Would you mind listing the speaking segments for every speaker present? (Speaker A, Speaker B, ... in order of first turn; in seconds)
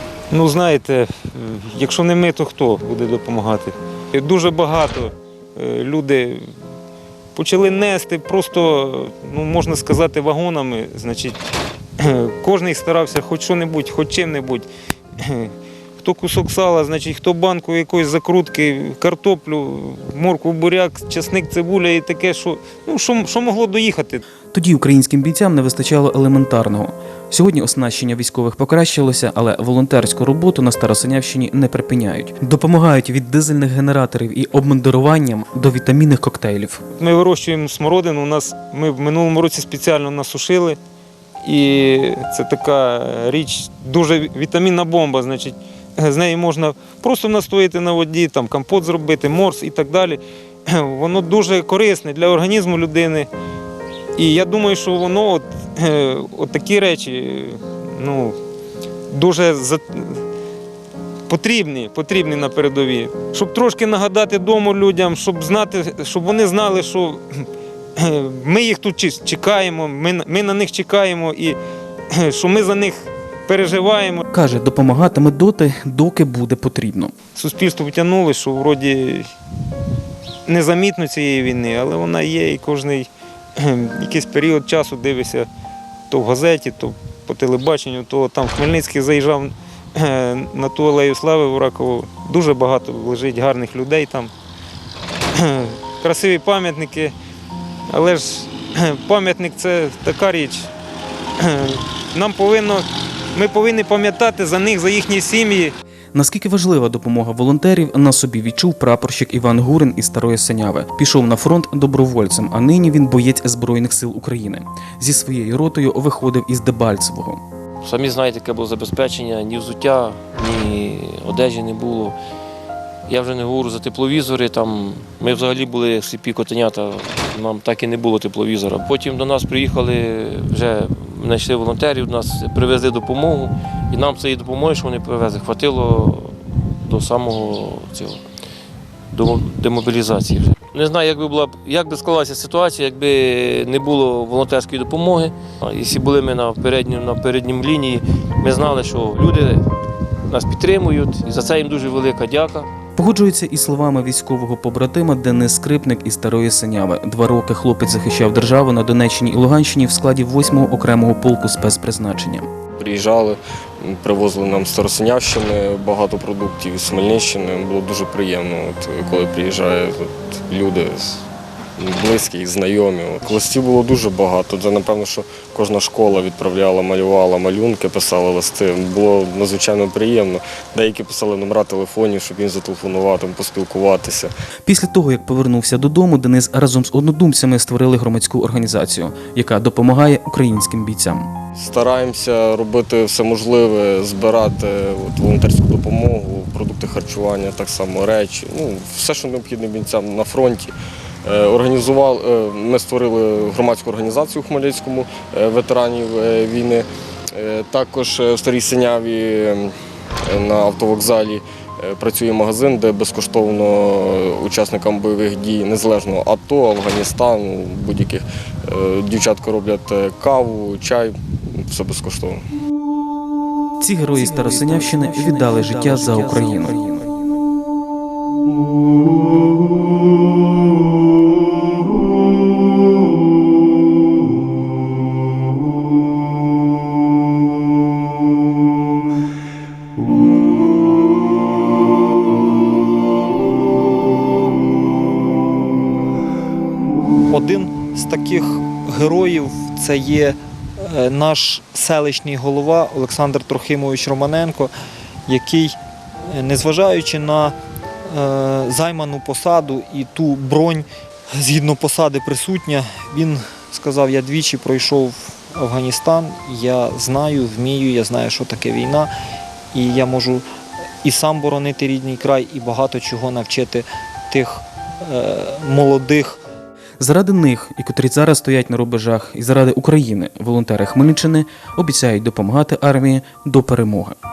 Speaker A: 0.3-6.5, 7.3-11.4, 12.0-14.7, 15.2-24.2, 37.0-40.8, 41.4-53.3, 54.2-58.4, 59.1-60.2, 61.3-67.2, 68.0-71.6, 72.1-74.2, 77.3-79.3, 80.5-85.5, 86.1-94.3, 95.3-97.1, 97.9-100.7, 101.4-105.7
Speaker B: 24.5-36.8, 74.3-77.1, 106.1-117.4, 153.0-162.5, 184.7-191.3, 223.8-226.8, 277.0-284.2
Speaker C: 117.8-122.2, 123.1-138.2, 139.1-149.6, 150.3-152.7
Speaker D: 162.8-171.2, 171.8-184.3, 191.6-200.7, 201.2-209.7, 210.3-222.4
Speaker E: 247.3-254.7, 255.3-255.8, 256.3-257.6, 258.1-260.9, 261.4-269.1, 269.7-270.4, 271.0-276.4